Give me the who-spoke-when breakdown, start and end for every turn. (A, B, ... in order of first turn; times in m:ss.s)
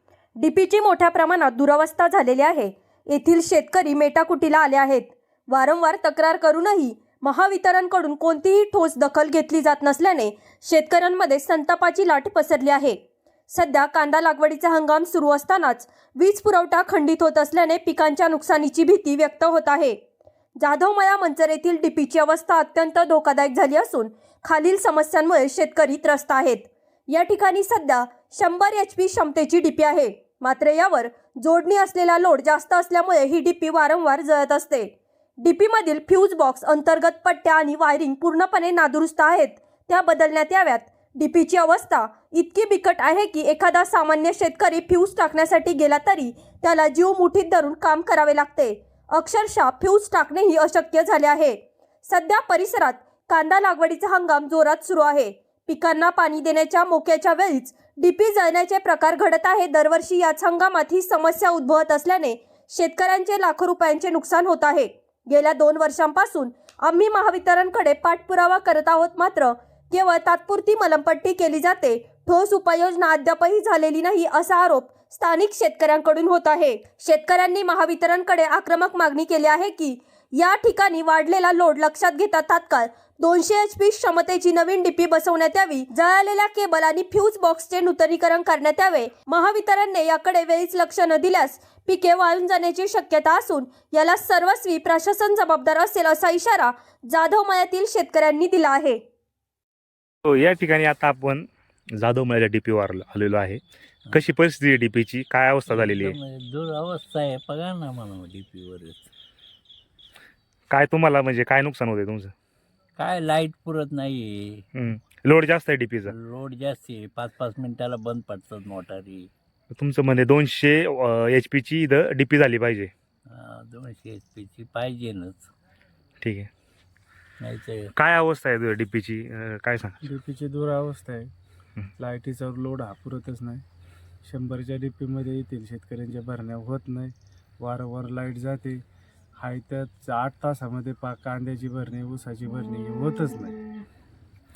0:00.4-0:13.0 A
0:13.5-0:20.0 A
0:20.6-1:39.0 A
1:40.2-1:46.2 B
1:45.7-1:49.1 C
1:50.7-1:52.3 B
1:53.0-1:54.7 C
1:54.8-1:56.1 B
1:56.1-1:59.3 C
1:59.7-2:02.9 B
2:03.3-2:05.5 C
2:06.2-2:06.5 B
2:07.4-2:07.9 C
2:08.0-2:10.0 B
2:10.0-2:11.3 D
2:12.0-2:13.6 D
2:14.2-2:18.8 D
2:19.4-2:23.6 D